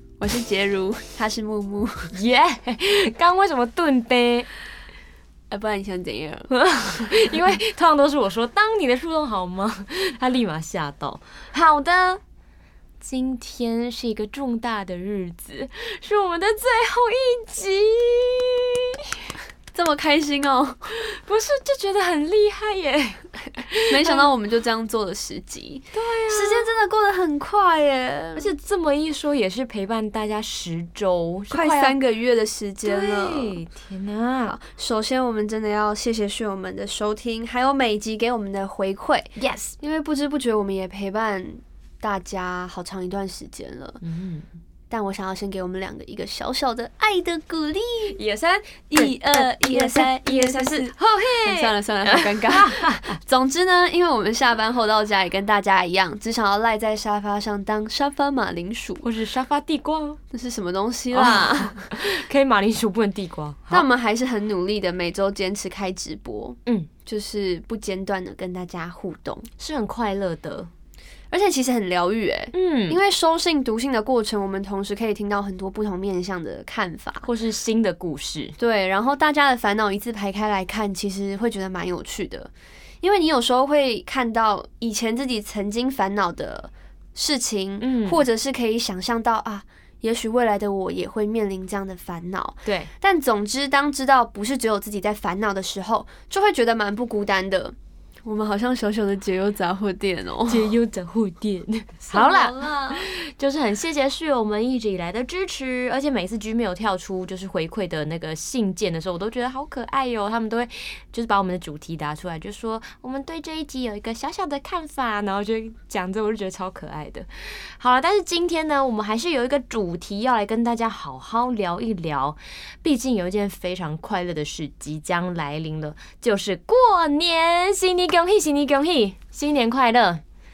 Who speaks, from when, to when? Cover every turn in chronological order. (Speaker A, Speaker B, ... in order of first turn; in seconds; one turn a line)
Speaker A: 0.2-2.1
Speaker B: 2.1-4.5
Speaker A: 5.5-6.5
Speaker B: 6.5-12.2
Speaker B: 13.0-19.2
Speaker A: 19.7-20.9
Speaker B: 21.0-24.3
Speaker A: 23.9-28.5
Speaker B: 25.9-26.7
Speaker B: 28.4-31.9
Speaker A: 31.5-33.6
Speaker B: 32.8-34.6
Speaker A: 34.5-44.0
Speaker B: 39.4-39.8
Speaker B: 44.0-44.5
Speaker A: 44.9-48.2
Speaker B: 48.1-53.2
Speaker A: 48.9-59.0
Speaker B: 59.0-60.2
Speaker A: 60.3-61.9
Speaker B: 61.1-63.9
Speaker A: 63.7-69.5
Speaker B: 69.6-70.7
Speaker A: 71.3-77.3
Speaker B: 72.5-73.0
Speaker B: 77.2-78.5
Speaker A: 78.6-82.5
Speaker A: 83.0-100.7
Speaker B: 87.8-88.2
Speaker B: 92.6-92.9
Speaker B: 100.5-130.2
Speaker A: 102.1-103.1